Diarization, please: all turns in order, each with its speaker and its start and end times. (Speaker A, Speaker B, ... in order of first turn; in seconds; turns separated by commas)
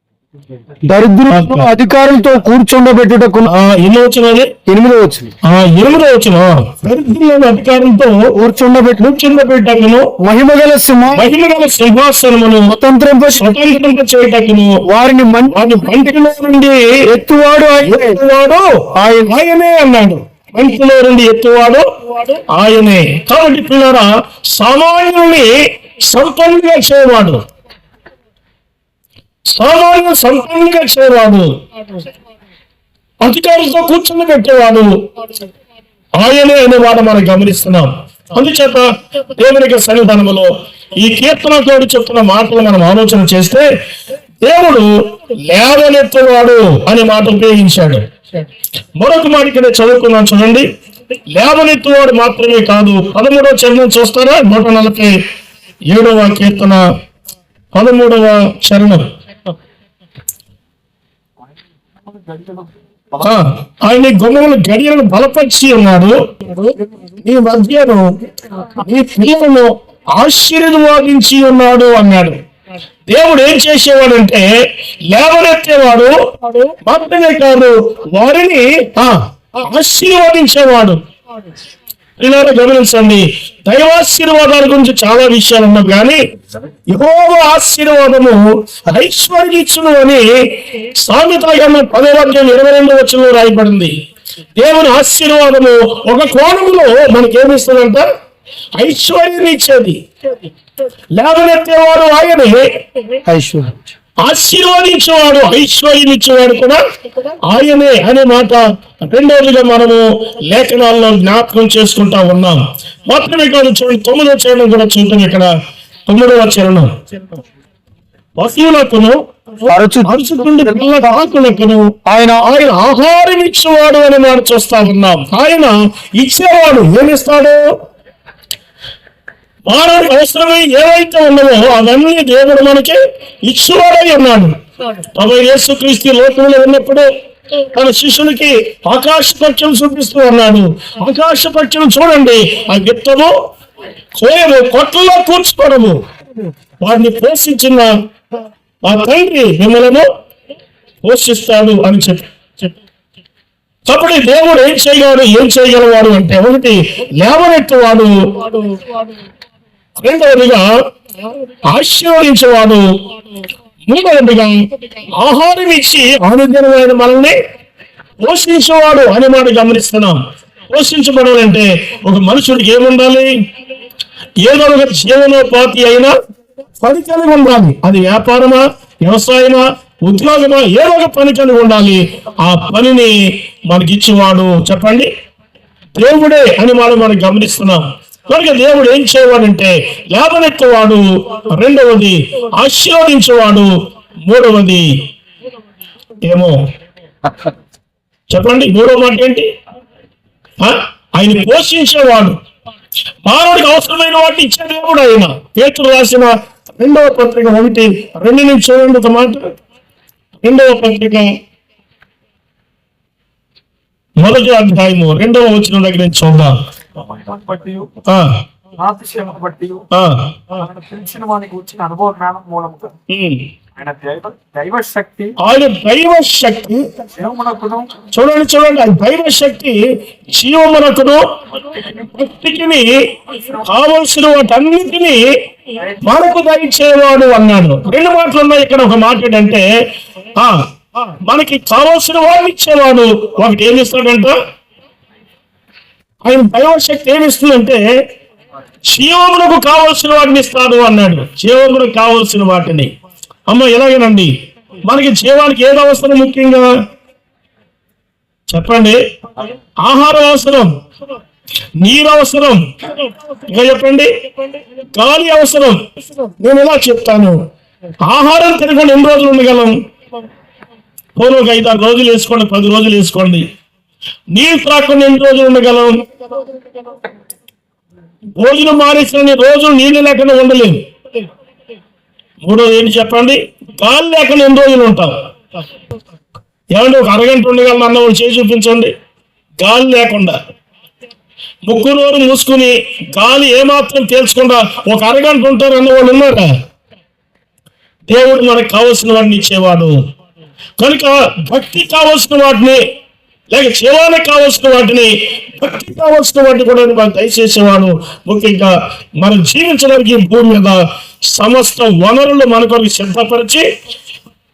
Speaker A: 0.8-3.5, Speaker B: 1.3-1.7, Speaker B: 3.5-4.5, Speaker A: 4.7-5.3, Speaker B: 5.4-8.3, Speaker A: 8.3-9.1, Speaker B: 8.9-10.1, Speaker A: 10.2-11.2, Speaker B: 11.1-12.8, Speaker A: 12.7-13.5, Speaker B: 13.3-14.8, Speaker A: 14.9-16.1, Speaker B: 15.5-17.1, Speaker A: 17.1-18.2, Speaker B: 17.8-25.5, Speaker A: 18.9-19.3, Speaker B: 26.0-27.4, Speaker B: 29.5-31.5, Speaker B: 33.2-34.9, Speaker B: 36.2-43.6, Speaker B: 44.4-44.9, Speaker B: 45.5-48.0, Speaker B: 49.0-50.6, Speaker B: 51.4-55.1, Speaker B: 55.9-56.8, Speaker B: 57.8-59.1, Speaker C: 62.1-62.7, Speaker B: 63.2-68.0, Speaker B: 68.6-72.4, Speaker B: 73.1-74.5, Speaker B: 75.1-81.0, Speaker B: 82.2-86.2, Speaker B: 86.9-90.3, Speaker B: 90.8-93.9, Speaker B: 94.6-98.0, Speaker B: 98.8-100.0, Speaker B: 101.2-102.6, Speaker A: 103.2-103.7, Speaker B: 104.2-106.8, Speaker B: 107.5-115.5, Speaker B: 116.1-117.0, Speaker B: 118.4-119.2, Speaker A: 119.7-120.1, Speaker B: 120.0-127.7, Speaker A: 122.0-122.5, Speaker B: 129.7-134.5, Speaker B: 135.1-137.1, Speaker B: 137.6-143.3, Speaker B: 144.2-146.0, Speaker B: 146.8-147.9, Speaker B: 148.8-150.1, Speaker B: 151.0-152.3, Speaker B: 153.9-158.8, Speaker B: 160.0-160.7, Speaker B: 161.7-162.8, Speaker B: 163.9-167.3, Speaker B: 168.2-170.2, Speaker B: 170.7-173.3, Speaker B: 174.4-176.1, Speaker B: 176.8-183.1, Speaker B: 183.7-185.1, Speaker B: 186.0-193.7, Speaker B: 194.2-194.9, Speaker B: 196.2-196.6, Speaker B: 198.3-199.5, Speaker B: 200.6-202.4, Speaker B: 203.2-209.4, Speaker B: 210.4-211.3, Speaker B: 214.2-216.5, Speaker C: 216.9-217.9, Speaker B: 218.0-218.4, Speaker C: 218.8-219.9, Speaker B: 219.9-220.4, Speaker C: 220.5-222.9, Speaker B: 223.1-223.5, Speaker C: 223.8-225.3, Speaker B: 225.4-226.8, Speaker C: 227.1-228.0, Speaker B: 228.1-229.8, Speaker B: 230.3-231.2, Speaker B: 231.8-235.2, Speaker B: 235.8-239.6, Speaker B: 240.4-244.4, Speaker B: 246.2-247.8, Speaker B: 248.9-252.9, Speaker B: 253.5-254.3, Speaker B: 254.8-256.7, Speaker B: 258.5-259.0, Speaker B: 259.8-260.7, Speaker B: 261.8-264.1, Speaker B: 264.8-267.4, Speaker B: 268.1-269.7, Speaker B: 271.2-273.4, Speaker B: 274.3-276.0, Speaker B: 278.4-280.8, Speaker B: 282.4-285.1, Speaker B: 286.8-288.9, Speaker B: 289.6-290.4, Speaker B: 291.6-296.5, Speaker B: 298.1-300.0, Speaker B: 300.8-302.8, Speaker B: 303.5-310.8, Speaker B: 311.3-313.6